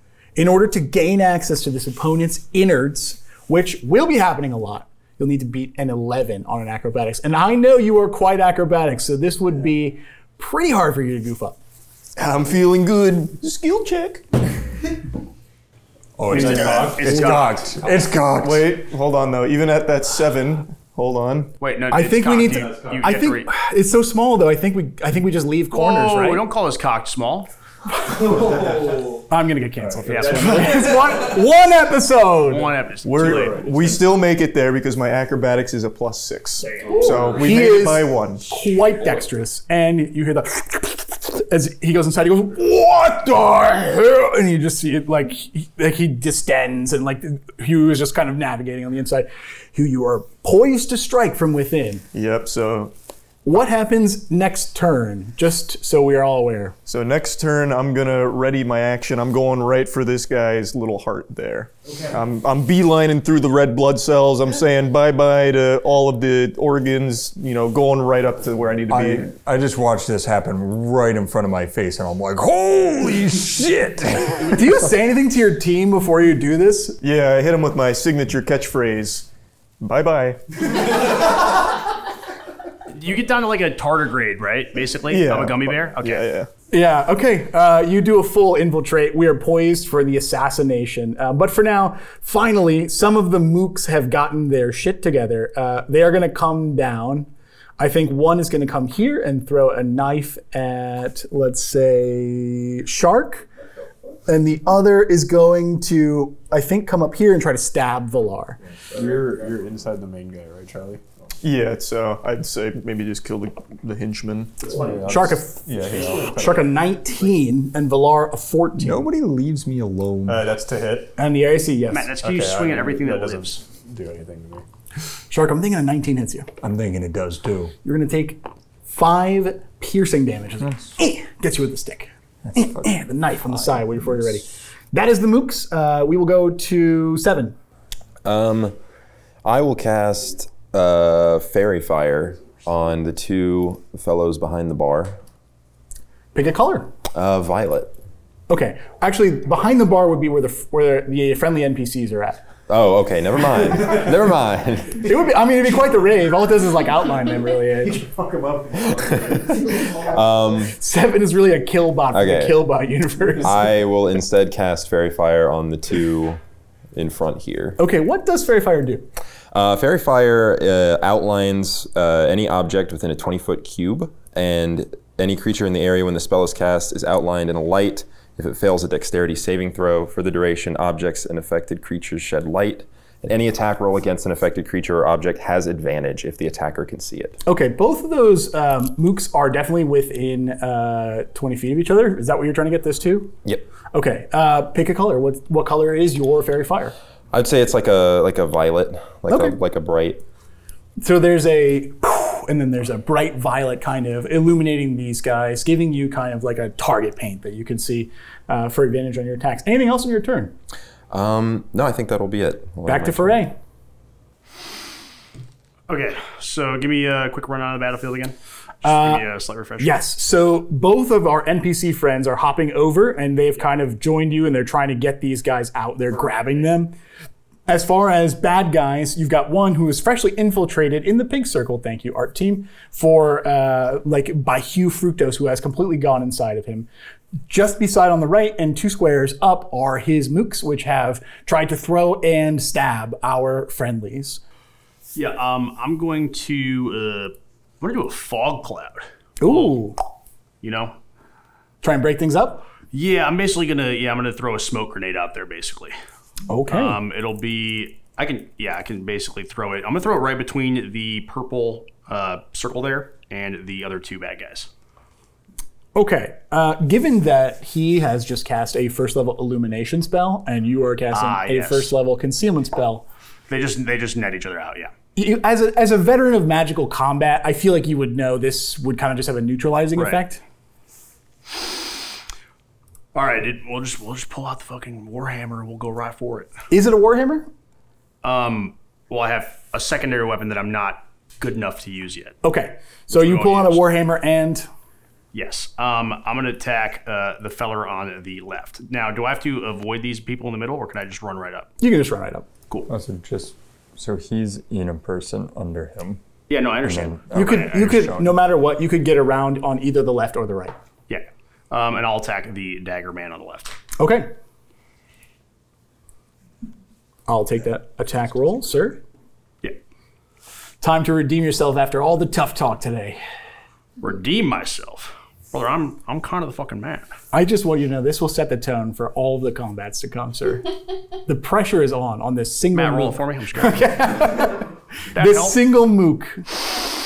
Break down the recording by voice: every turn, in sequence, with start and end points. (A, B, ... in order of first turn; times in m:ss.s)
0:00.4-0:11.6 A
0:12.2-0:14.2 B
0:16.2-0:18.7 C
0:16.3-0:17.8 D
0:16.4-0:17.0 E
0:18.4-0:21.5 B
0:21.6-0:23.5 D
0:21.9-0:26.4 A
0:25.7-0:27.5 D
0:28.1-0:32.7 A
0:30.0-0:30.8 D
0:32.4-0:33.7 D
0:33.0-0:38.5 B
0:37.3-0:52.0 A
0:52.1-0:52.9 B
0:53.4-0:56.8 A
0:56.9-1:09.3 B
1:08.9-1:14.6 C
1:14.5-1:17.0 A
1:17.0-1:19.3 B
1:19.8-1:20.4 B
1:22.9-1:26.3 D
1:25.1-1:26.5 B
1:26.7-1:43.5 A
1:44.3-1:48.6 A
1:48.9-1:51.0 E
1:51.4-1:54.6 B
1:54.6-1:56.7 E
1:55.0-1:59.1 A
1:58.8-2:00.5 C
2:00.3-2:01.1 E
2:01.2-2:02.2 A
2:01.9-2:03.6 D
2:02.2-2:04.6 E
2:05.3-2:06.5 A
2:06.6-2:07.7 C
2:07.8-2:17.6 A
2:12.4-2:13.0 C
2:13.5-2:13.8 C
2:18.2-2:18.8 F
2:19.4-2:25.2 F
2:26.3-2:26.9 A
2:27.1-2:27.9 F
2:28.5-2:32.4 A
2:32.7-2:35.0 F
2:35.0-2:38.3 A
2:38.7-2:40.7 F
2:40.7-2:43.7 A
2:42.1-2:42.6 F
2:43.4-2:46.4 F
2:46.9-2:47.8 F
2:47.8-2:49.1 A
2:49.5-3:07.4 F
3:07.4-3:13.4 A
3:13.9-3:16.9 A
3:17.3-3:20.2 F
3:19.3-3:19.6 A
3:21.0-3:30.5 A
3:31.1-3:33.4 F
3:32.9-3:33.6 A
3:35.9-3:40.0 D
3:38.8-3:39.2 A
3:39.8-3:46.9 A
3:47.7-3:56.9 A
3:57.5-4:04.4 A
4:05.2-4:09.8 D
4:09.4-4:10.0 A
4:10.6-4:11.0 D
4:11.8-4:12.7 A
4:12.9-4:16.0 D
4:16.5-4:17.0 A
4:16.7-4:24.7 D
4:25.9-4:33.1 A
4:31.1-4:31.9 D
4:33.5-4:34.9 D
4:35.2-4:40.4 A
4:39.9-4:40.2 D
4:43.1-4:46.5 D
4:46.7-4:47.5 A
4:48.2-4:52.4 D
4:52.4-4:54.7 A
4:53.1-4:53.9 D
4:55.3-5:01.7 D
5:01.8-5:02.5 A
5:02.9-5:06.2 C
5:06.5-5:07.9 D
5:06.8-5:08.4 C
5:07.3-5:10.8 A
5:11.1-5:13.8 D
5:14.0-5:14.3 A
5:17.3-5:19.0 A
5:20.8-5:23.2 A
5:24.0-5:27.2 D
5:27.3-5:30.7 A
5:31.3-5:36.6 A
5:32.7-5:33.9 D
5:35.1-5:35.6 D